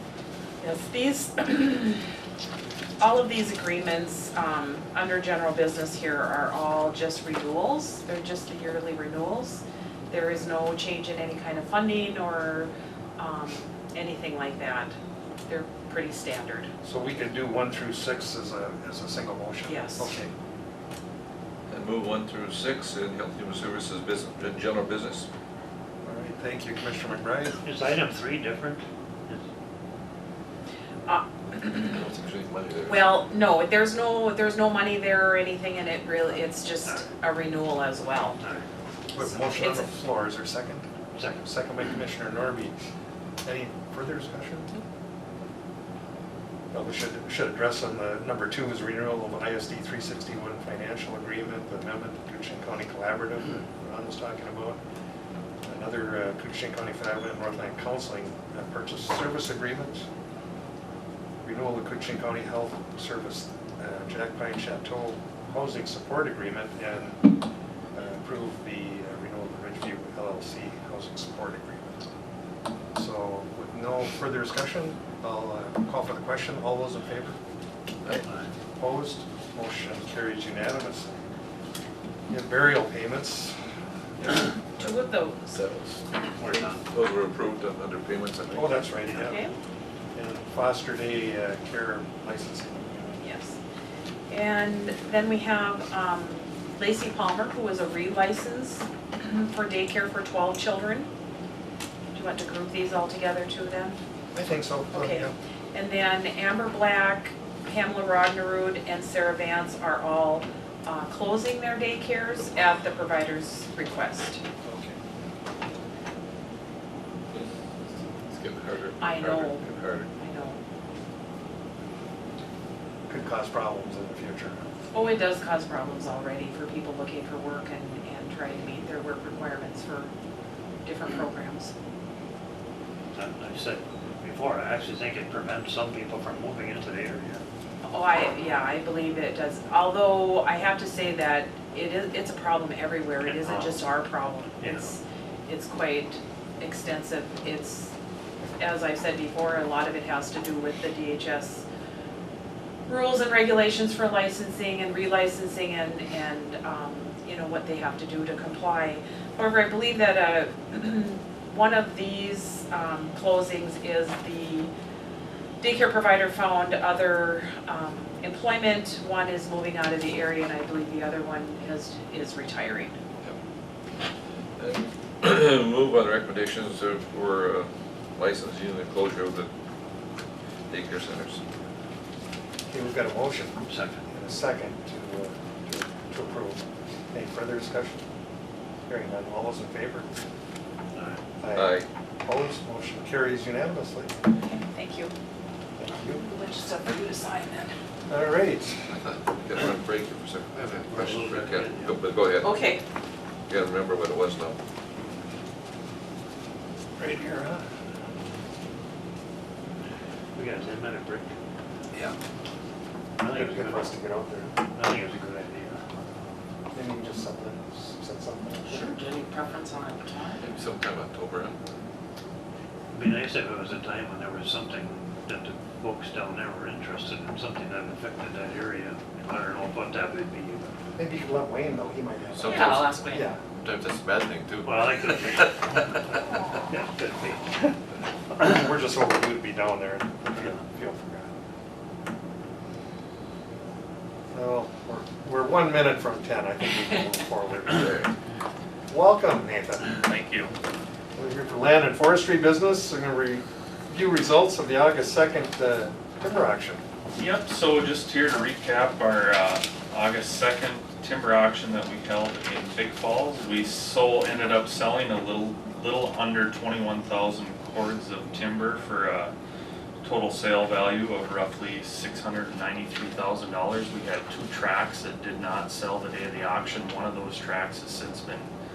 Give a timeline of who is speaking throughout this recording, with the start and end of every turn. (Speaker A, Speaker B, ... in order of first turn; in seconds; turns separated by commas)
Speaker A: 0.6-2.0, Speaker A: 3.0-14.9, Speaker A: 15.5-16.7, Speaker B: 16.8-20.3, Speaker A: 19.6-20.1, Speaker C: 21.7-25.3, Speaker B: 26.0-27.6, Speaker D: 27.6-29.4, Speaker A: 31.1-32.0, Speaker C: 31.8-33.2, Speaker A: 32.9-38.4, Speaker D: 36.8-37.1, Speaker D: 38.4-38.6, Speaker B: 39.1-42.7, Speaker A: 39.2-39.9, Speaker D: 41.1-41.5, Speaker B: 43.4-44.7, Speaker B: 46.7-54.8, Speaker B: 55.6-60.0, Speaker B: 61.4-67.2, Speaker B: 67.9-72.0, Speaker B: 72.9-77.4, Speaker B: 78.8-81.2, Speaker B: 82.3-83.6, Speaker C: 84.2-84.9, Speaker A: 84.8-85.6, Speaker C: 85.5-86.0, Speaker D: 86.4-86.8, Speaker C: 86.8-88.8, Speaker B: 88.5-89.4, Speaker D: 89.0-89.3, Speaker A: 89.2-89.5, Speaker B: 90.1-93.2, Speaker A: 93.2-93.6, Speaker A: 94.3-101.1, Speaker A: 102.1-104.0, Speaker B: 104.3-105.3, Speaker A: 104.9-114.4, Speaker B: 114.6-114.9, Speaker C: 118.3-120.1, Speaker A: 119.0-120.6, Speaker B: 123.1-124.6, Speaker A: 124.9-130.1, Speaker A: 130.8-131.7, Speaker D: 133.1-137.4, Speaker A: 137.8-147.9, Speaker D: 143.2-143.8, Speaker D: 144.5-145.0, Speaker A: 148.6-151.6, Speaker A: 152.9-164.7, Speaker A: 165.6-172.9, Speaker C: 174.6-179.5, Speaker C: 180.7-181.4, Speaker B: 182.7-188.0, Speaker D: 183.7-184.0, Speaker B: 188.9-190.1, Speaker D: 190.9-191.2, Speaker B: 191.4-194.1, Speaker C: 191.5-191.9, Speaker A: 194.4-195.1, Speaker B: 195.8-196.2, Speaker A: 196.0-197.7, Speaker B: 198.1-198.9, Speaker C: 198.9-202.5, Speaker D: 200.9-202.0, Speaker A: 202.4-202.8, Speaker C: 203.5-204.6, Speaker B: 207.0-207.7, Speaker D: 210.3-211.3, Speaker D: 213.2-213.9, Speaker B: 213.3-214.6, Speaker D: 214.7-215.8, Speaker B: 216.7-218.9, Speaker A: 218.7-220.4, Speaker C: 220.4-221.6, Speaker D: 222.9-230.8, Speaker B: 230.9-233.4, Speaker C: 232.3-233.0, Speaker A: 232.4-233.2, Speaker C: 233.6-235.8, Speaker D: 234.6-237.8, Speaker B: 238.4-241.3, Speaker B: 244.3-248.0, Speaker C: 247.7-248.1, Speaker B: 248.9-249.9, Speaker E: 250.0-250.5, Speaker B: 251.2-256.8, Speaker E: 257.2-269.3, Speaker E: 270.0-278.5